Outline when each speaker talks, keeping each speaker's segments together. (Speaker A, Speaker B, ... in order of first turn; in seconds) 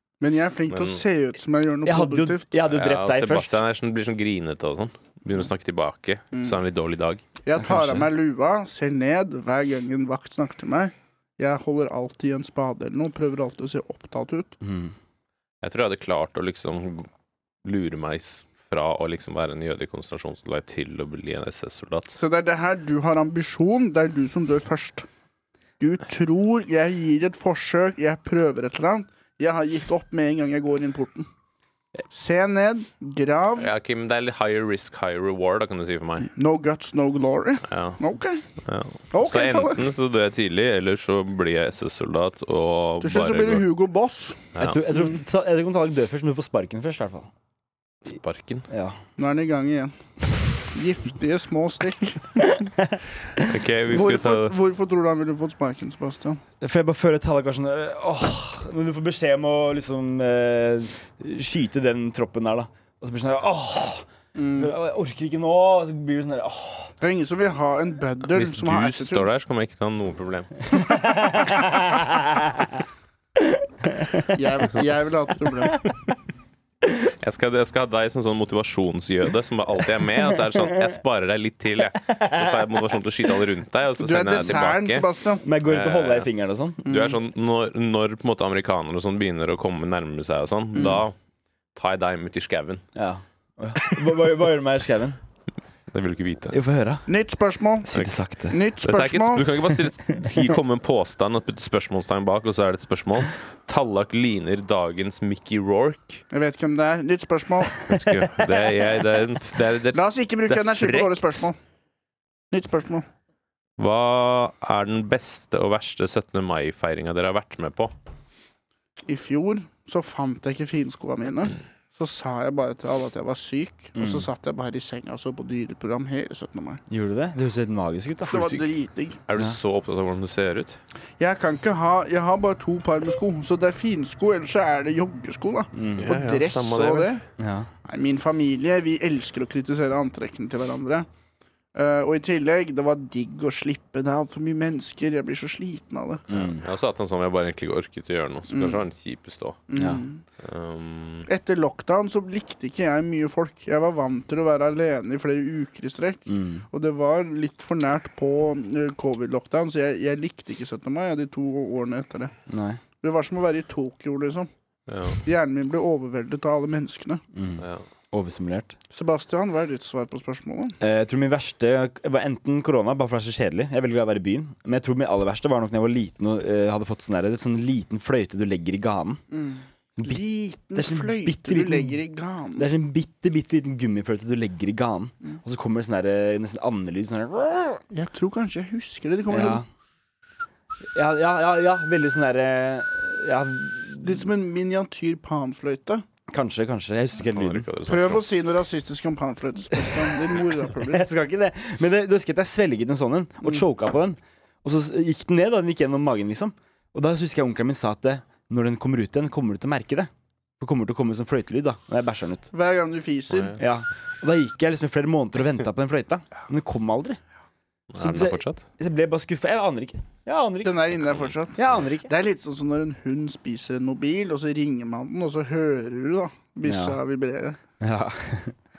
Speaker A: 0.2-2.5, 6.3-6.6, 7.4-14.6, 22.1-25.1, 25.8-31.3, 32.1-33.7, 36.3-38.4, 39.1-39.9, 43.0-44.5, 49.2-50.0, 50.6-52.5, 53.9-56.4, 64.3-64.7, 67.0-69.3, 74.3-75.8, 84.0-85.4, 86.8-87.2, 90.7-91.0, 97.1-97.9, 98.5-99.5, 106.3-107.8, 109.9-111.6, 112.5-113.0, 119.1-126.8, 128.2-129.2, 131.2-137.2, 137.8-141.1, 141.7-146.2, 148.5-148.8, 149.7-150.2, 151.3-162.3, 163.0-164.5, 165.2-167.2, 168.9-170.8, 179.3-182.7, 187.9-189.6, 194.0-196.1, 197.9-201.0, 212.5-213.6, 220.6-227.6
Speaker B: 0.7-1.0, 2.7-7.2, 15.6-17.1, 17.6-22.1, 33.6-36.3, 37.7-38.0, 38.6-43.6, 44.5-44.8, 48.0-48.7, 53.3-54.5, 68.3-70.7, 77.0-85.1, 85.6-86.3, 86.9-91.1, 91.7-92.8, 95.9-96.6, 98.8-106.2, 107.8-111.5, 113.8-117.9, 129.3-130.8, 136.0-137.2, 146.3-149.6, 150.4-151.3, 164.9-165.2, 197.3-198.2, 213.3-213.6, 217.9-218.6
Speaker C: 1.8-3.6, 7.6-8.1, 14.6-14.9, 44.6-47.3, 48.7-49.0, 52.6-53.0, 56.6-66.9, 70.7-72.8, 73.4-74.3, 80.5-80.8, 82.0-83.0, 85.4-86.8, 92.9-95.2, 96.5-97.0, 97.9-98.6, 100.1-100.5, 107.9-108.5, 124.0-124.3, 126.9-128.6, 135.7-136.1, 137.4-137.7, 146.3-146.6, 149.8-150.0, 156.3-156.7, 162.5-162.8, 167.3-168.8, 170.8-179.2, 179.9-180.2, 180.7-182.0, 182.6-187.8, 189.3-189.6, 190.9-194.3, 196.3-197.7, 199.9-212.5, 213.6-217.2, 218.0-220.9, 221.6-222.1, 226.6-227.0, 227.8-228.6